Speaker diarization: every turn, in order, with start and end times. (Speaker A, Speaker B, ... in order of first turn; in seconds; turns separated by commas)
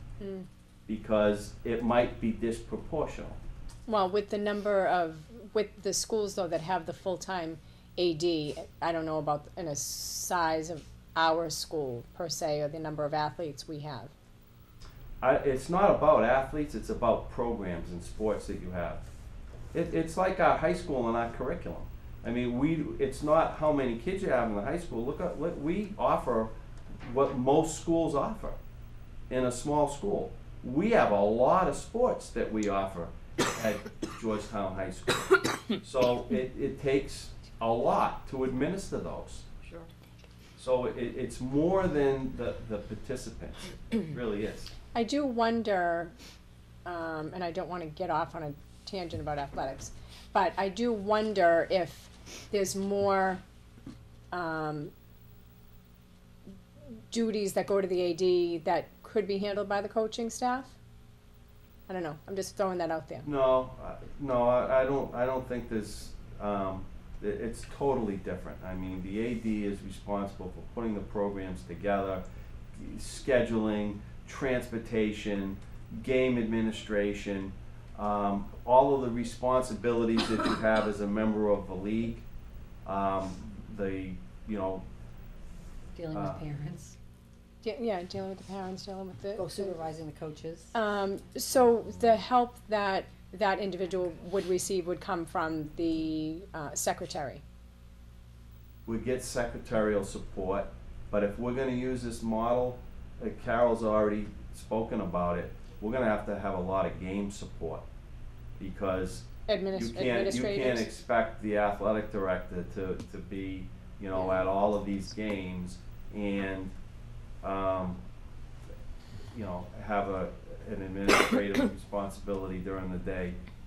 Speaker A: 0.2-0.5, Speaker B: 0.9-3.4, Speaker A: 3.9-14.1, Speaker B: 15.2-19.0, Speaker B: 19.7-26.5, Speaker B: 27.0-28.6, Speaker B: 29.3-39.5, Speaker B: 40.6-44.7, Speaker A: 44.9-46.1, Speaker A: 46.8-53.4, Speaker A: 54.3-54.9, Speaker A: 57.1-60.8, Speaker A: 61.9-63.3, Speaker B: 63.2-72.2, Speaker B: 72.7-82.2, Speaker B: 82.8-84.8, Speaker C: 85.9-87.0, Speaker B: 86.1-86.4, Speaker A: 87.6-89.7, Speaker C: 89.4-90.7, Speaker A: 90.7-97.4, Speaker B: 98.8-107.8, Speaker B: 108.6-116.7, Speaker A: 109.5-110.9, Speaker B: 117.4-118.0, Speaker B: 119.3-123.4